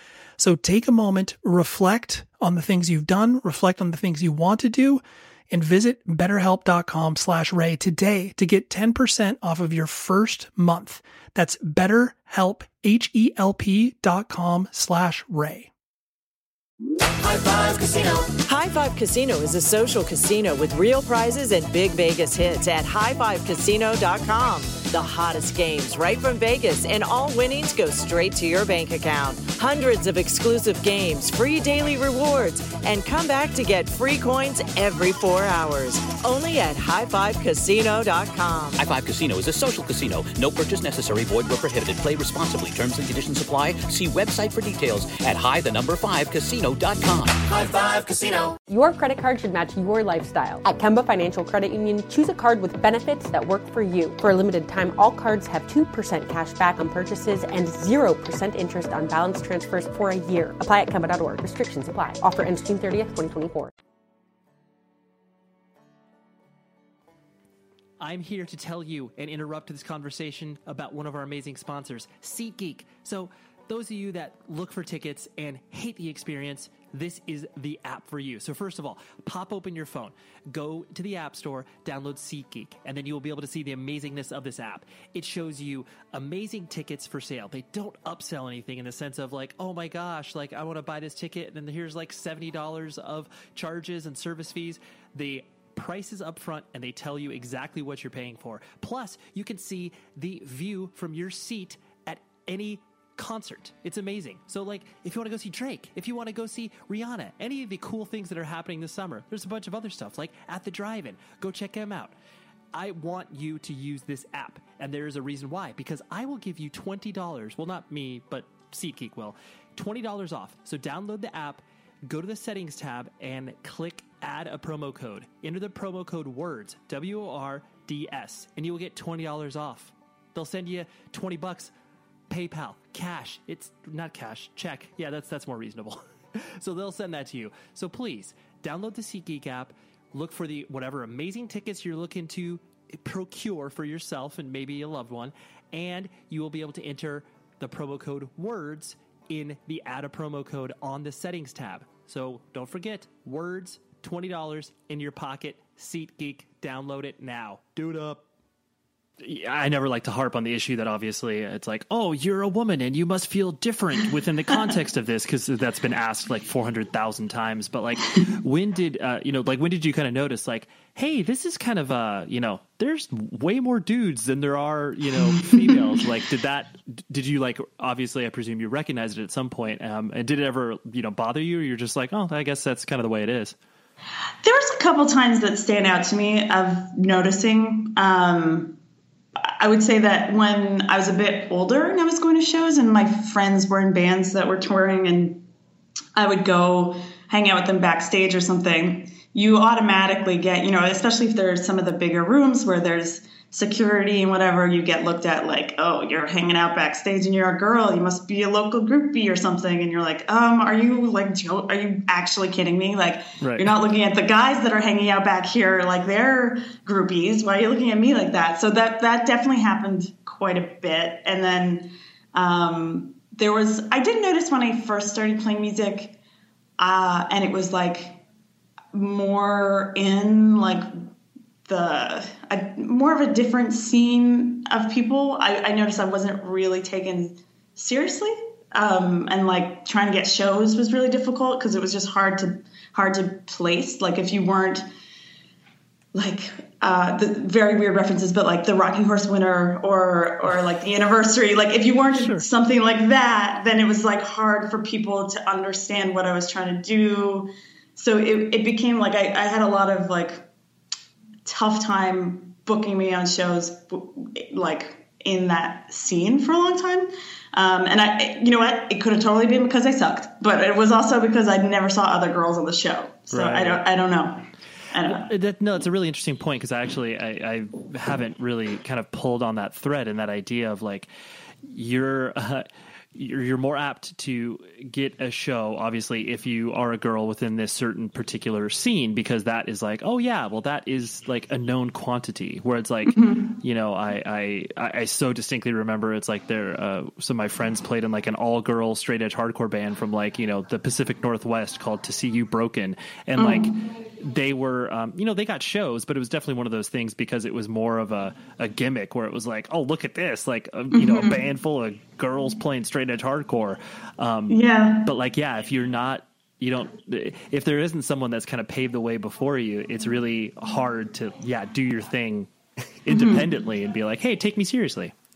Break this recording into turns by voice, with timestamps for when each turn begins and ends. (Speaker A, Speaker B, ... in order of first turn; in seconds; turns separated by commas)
Speaker A: 0.4-15.7, Speaker B: 17.3-38.8, Speaker C: 38.8-47.5, Speaker D: 48.7-63.7, Speaker E: 68.0-112.1, Speaker E: 112.7-131.7, Speaker E: 132.3-158.2, Speaker E: 159.2-183.6, Speaker F: 184.4-188.8, Speaker F: 189.6-195.4, Speaker F: 196.2-226.2, Speaker E: 213.4-213.7, Speaker F: 226.8-228.2, Speaker F: 228.9-230.9, Speaker F: 231.7-244.8, Speaker F: 246.1-260.4, Speaker E: 252.2-252.4, Speaker F: 261.4-275.3, Speaker E: 273.3-273.8, Speaker E: 275.1-281.1, Speaker E: 281.6-322.5, Speaker F: 293.1-293.6, Speaker F: 303.4-303.8, Speaker F: 310.9-311.4, Speaker F: 314.5-315.1, Speaker E: 323.0-325.1, Speaker F: 323.1-323.5